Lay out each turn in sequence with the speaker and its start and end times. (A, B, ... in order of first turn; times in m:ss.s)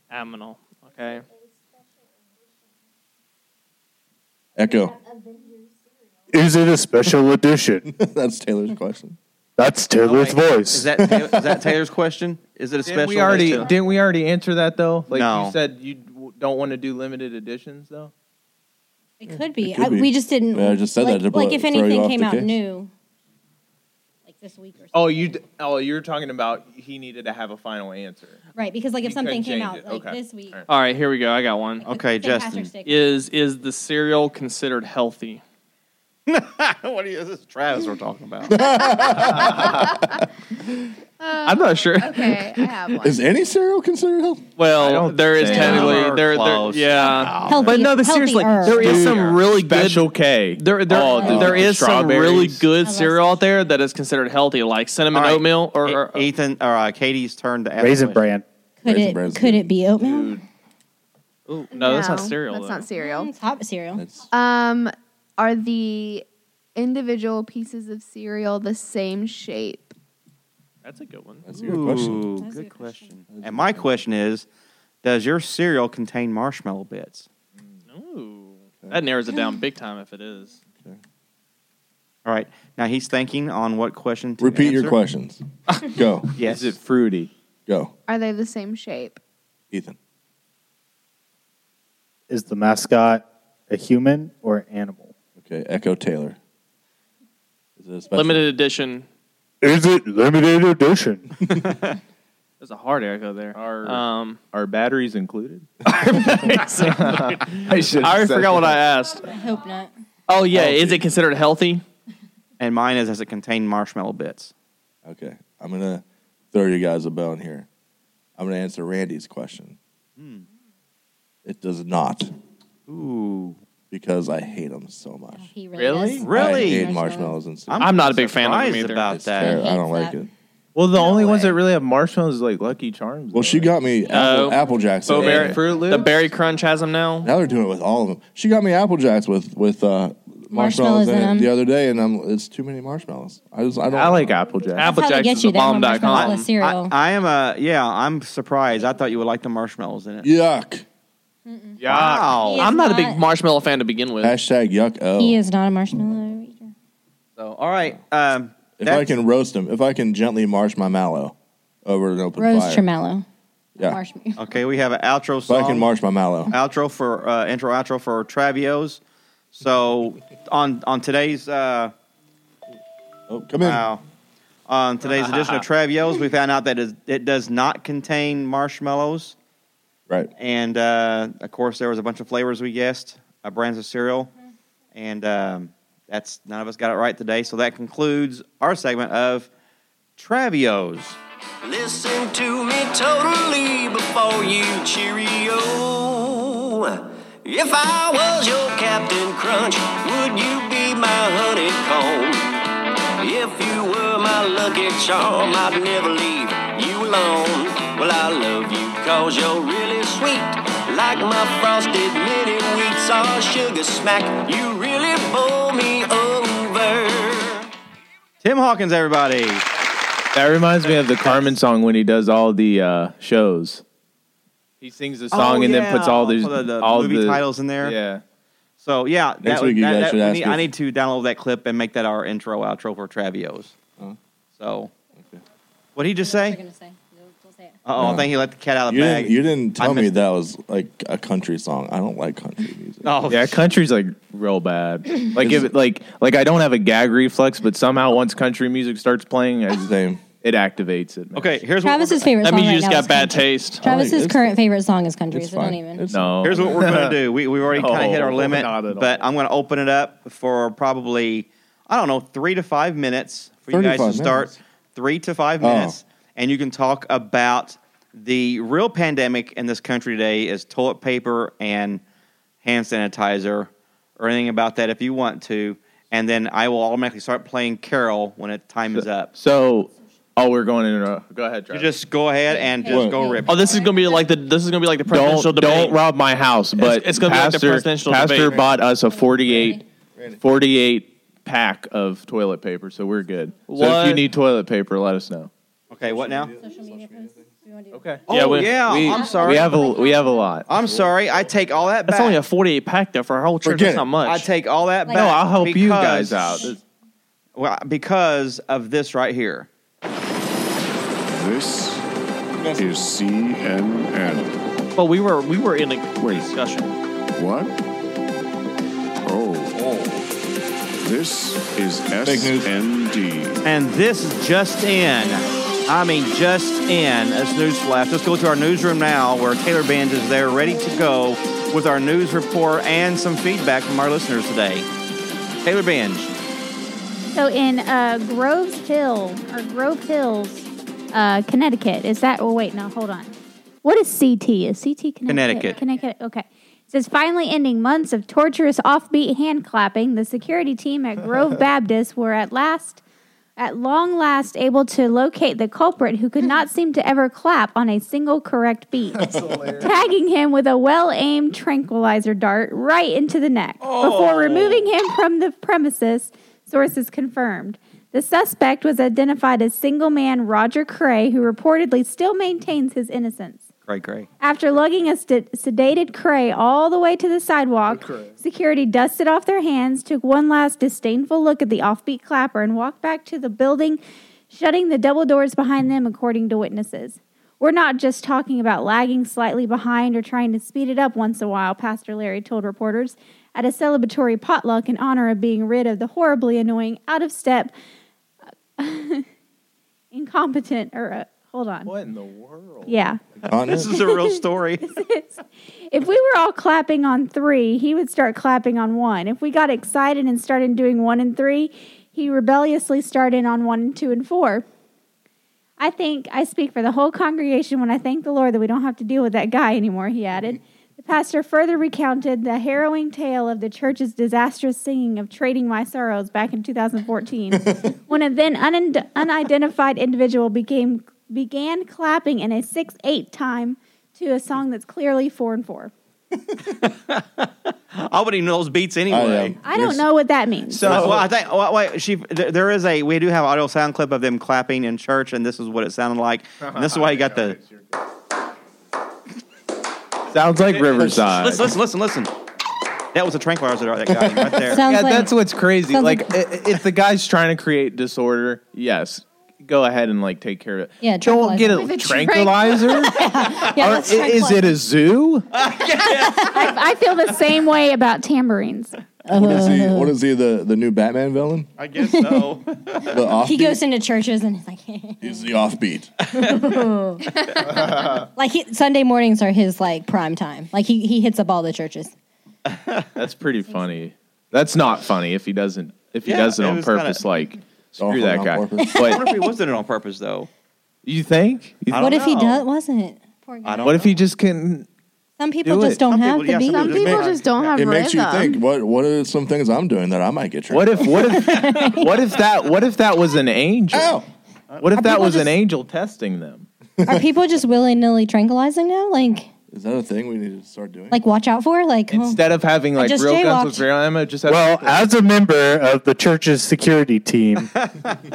0:00.1-0:01.2 A
0:04.6-0:05.0 B
0:06.3-0:07.9 C
0:07.8-0:09.2 B
0:09.6-0:10.9 C
0:10.0-0:13.7 D
0:11.0-0:11.7 B
0:12.8-0:18.1 E
0:13.0-0:13.7 A
0:15.1-0:15.6 D
0:19.2-0:22.9 F
0:19.3-0:22.6 B
0:24.3-0:25.3 F
0:24.9-0:28.4 E
0:28.6-0:30.6 F
0:29.0-0:30.7 E
0:30.7-0:31.8 A
0:31.8-0:33.1 F
0:31.8-0:32.7 D
0:32.8-0:35.4 A
0:36.3-0:39.1 D
0:38.5-0:39.9 B
0:41.2-0:43.3 G
0:41.4-0:42.6 A
0:43.0-0:44.4 B
0:44.6-0:56.3 A
0:44.7-0:46.2 E
0:45.4-0:47.8 D
0:47.4-0:49.2 F
0:48.6-0:52.6 E
0:51.1-0:51.5 F
0:51.2-0:51.7 B
0:52.8-0:53.4 F
0:55.1-0:58.3 D
0:57.8-0:58.4 C
0:58.8-1:00.4 F
0:58.8-0:59.7 B
1:00.0-1:00.4 E
1:01.5-1:02.9 A
1:01.7-1:03.3 G
1:03.0-1:04.0 F
1:04.0-1:04.2 B
1:04.3-1:09.9 G
1:10.8-1:11.4 A
1:11.4-1:12.3 B
1:11.6-1:14.4 D
1:12.4-1:13.1 F
1:13.3-1:14.0 B
1:15.0-1:17.3 D
1:17.9-1:20.6 A
1:22.2-1:25.0 D
1:24.4-1:26.3 B
1:26.4-1:26.7 D
1:26.4-1:27.3 E
1:27.7-1:27.9 B
1:28.1-1:29.2 G
1:29.7-1:30.0 B
1:32.3-1:35.1 C
1:35.4-1:36.4 B
1:37.8-1:38.5 B
1:38.1-1:39.0 A
1:39.6-1:41.3 C
1:42.6-1:44.4 A
1:43.5-1:45.7 E
1:45.9-1:49.3 A
1:46.2-1:48.8 E
1:49.2-1:49.9 F
1:50.3-1:51.8 A
1:50.5-1:51.1 B
1:52.6-1:54.5 D
1:55.0-1:57.7 B
1:58.4-1:59.8 B
2:00.2-2:00.4 D
2:01.4-2:02.3 B
2:02.9-2:03.6 D
2:03.9-2:05.4 B
2:05.4-2:07.4 F
2:05.8-2:06.3 E
2:06.2-2:06.9 D
2:06.3-2:07.9 B
2:07.7-2:09.6 D
2:07.8-2:09.0 A
2:09.1-2:10.3 B
2:09.4-2:10.2 F
2:10.7-2:13.7 E
2:11.0-2:11.4 G
2:11.1-2:11.4 F
2:13.3-2:15.6 B
2:14.1-2:17.3 A
2:15.1-2:16.2 E
2:17.2-2:24.4 B
2:20.5-2:21.5 F
2:23.9-2:24.9 E
2:24.7-2:26.5 A
2:24.8-2:26.9 F
2:26.1-2:30.3 D
2:30.2-2:30.8 B
2:31.5-2:31.8 F
2:31.8-2:32.4 E
2:31.9-2:32.7 D
2:32.4-2:33.2 F
2:32.6-2:34.4 A
2:34.2-2:35.4 B
2:35.2-2:36.7 F
2:37.4-2:39.1 D
2:38.8-2:42.8 B
2:42.4-2:43.2 F
2:43.8-2:44.4 F
2:44.4-2:45.9 D
2:45.5-2:46.5 B
2:46.5-2:49.0 D
2:49.5-2:51.9 D
2:53.3-2:53.9 B
2:53.6-2:54.0 D
2:54.7-2:59.4 D
2:55.0-2:55.6 A
3:00.4-3:04.3 D
3:04.9-3:09.5 D
3:10.2-3:11.2 D
3:11.6-3:22.5 H
3:23.2-3:37.7 H
3:38.4-3:39.6 D
3:40.3-3:43.8 E
3:41.2-3:41.6 D
3:44.8-3:48.2 E
3:45.3-3:48.0 D
3:48.8-3:53.7 D
3:49.4-3:50.7 B
3:54.6-3:54.9 D
3:56.0-3:56.6 D
3:56.2-3:57.8 F
3:57.8-4:00.1 D
3:58.0-3:58.3 B
3:58.9-4:03.1 B
4:03.0-4:03.7 D
4:03.3-4:11.6 E
4:05.4-4:05.7 B
4:09.7-4:10.2 B
4:11.3-4:12.3 D
4:11.8-4:16.0 F
4:12.4-4:13.8 A
4:13.8-4:14.6 B
4:15.3-4:16.8 B
4:16.1-4:19.3 E
4:16.4-4:32.0 D
4:23.7-4:24.6 B
4:25.6-4:26.0 B
4:32.6-4:39.3 D
4:38.9-4:41.9 E
4:41.7-4:43.9 D
4:42.5-4:44.2 F
4:42.9-4:43.3 B
4:43.5-4:46.0 A
4:45.1-4:49.8 E
4:46.8-4:48.6 A
4:49.1-4:49.8 F
4:50.2-4:50.4 B
4:50.4-4:55.5 E
4:53.7-4:54.2 A
4:55.9-4:56.5 D
4:56.0-4:57.4 B
4:56.6-4:58.2 F
4:57.9-5:00.7 E
4:58.3-4:59.9 D
4:58.3-4:59.0 A
4:59.0-5:00.6 F
5:00.7-5:02.4 D
5:02.1-5:04.5 A
5:03.6-5:04.1 B
5:04.2-5:06.7 D
5:05.0-5:05.4 F
5:05.1-5:06.8 E
5:07.6-5:09.7 D
5:11.3-5:12.0 I
5:12.6-5:13.1 B
5:12.8-5:14.5 I
5:15.0-5:16.9 A
5:16.2-5:16.6 I
5:17.3-5:17.7 I
5:19.2-5:20.2 I
5:19.8-5:20.0 B
5:21.0-5:23.6 I
5:22.2-5:22.7 B
5:23.6-5:34.8 D
5:35.6-5:36.3 D
5:37.3-5:43.3 J
5:43.8-5:53.0 J
5:45.2-5:45.8 D
5:53.6-6:13.7 J
6:03.9-6:04.7 D
6:13.8-6:14.3 D
6:14.4-6:37.7 J
6:38.8-6:39.2 J
6:40.1-6:41.9 J
6:41.8-6:43.0 E
6:42.9-6:43.2 J
6:43.4-6:43.9 B
6:43.7-6:44.9 D
6:44.0-6:44.3 J
6:44.9-6:54.6 J
6:55.8-7:15.9 J
7:07.5-7:07.9 B
7:16.6-7:19.6 D
7:19.1-7:20.0 B
7:19.6-7:21.0 J
7:20.7-7:21.3 E
7:20.8-7:27.6 D
7:26.6-7:27.8 E
7:30.3-7:31.7 E
7:30.9-7:32.3 D
7:33.1-7:34.8 D
7:34.1-7:34.5 B
7:34.7-7:36.3 F
7:34.8-7:45.5 E
7:41.0-7:42.0 F
7:41.7-7:43.2 G
7:42.9-7:44.8 F
7:45.5-7:46.8 D
7:46.3-7:48.9 J
7:49.2-7:50.1 F
7:49.3-7:51.7 B
7:51.8-7:53.2 D
7:52.1-7:52.4 F
7:53.1-7:53.8 B
7:53.4-7:55.5 F
7:55.2-7:56.1 B
7:56.3-7:56.7 D
7:56.4-8:02.1 F
8:02.7-8:03.1 D
8:03.2-8:09.2 E
8:06.2-8:07.2 D
8:08.0-8:09.1 B
8:08.8-8:09.3 F
8:09.0-8:10.5 D
8:11.0-8:12.4 E
8:11.9-8:12.6 D
8:11.9-8:14.0 F
8:13.6-8:14.2 D
8:13.8-8:14.8 E
8:15.4-8:17.1 F
8:15.6-8:16.0 E
8:16.0-8:17.7 D
8:16.7-8:18.6 G
8:16.9-8:21.2 B
8:20.7-8:24.2 E
8:21.2-8:22.1 F
8:23.9-8:24.2 B
8:24.7-8:25.0 D
8:24.8-8:26.6 E
8:24.9-8:25.6 F
8:27.0-8:29.5 F
8:29.7-8:31.2 B
8:31.1-8:33.9 F
8:32.1-8:35.0 E
8:34.4-8:37.7 C
8:37.8-8:38.2 D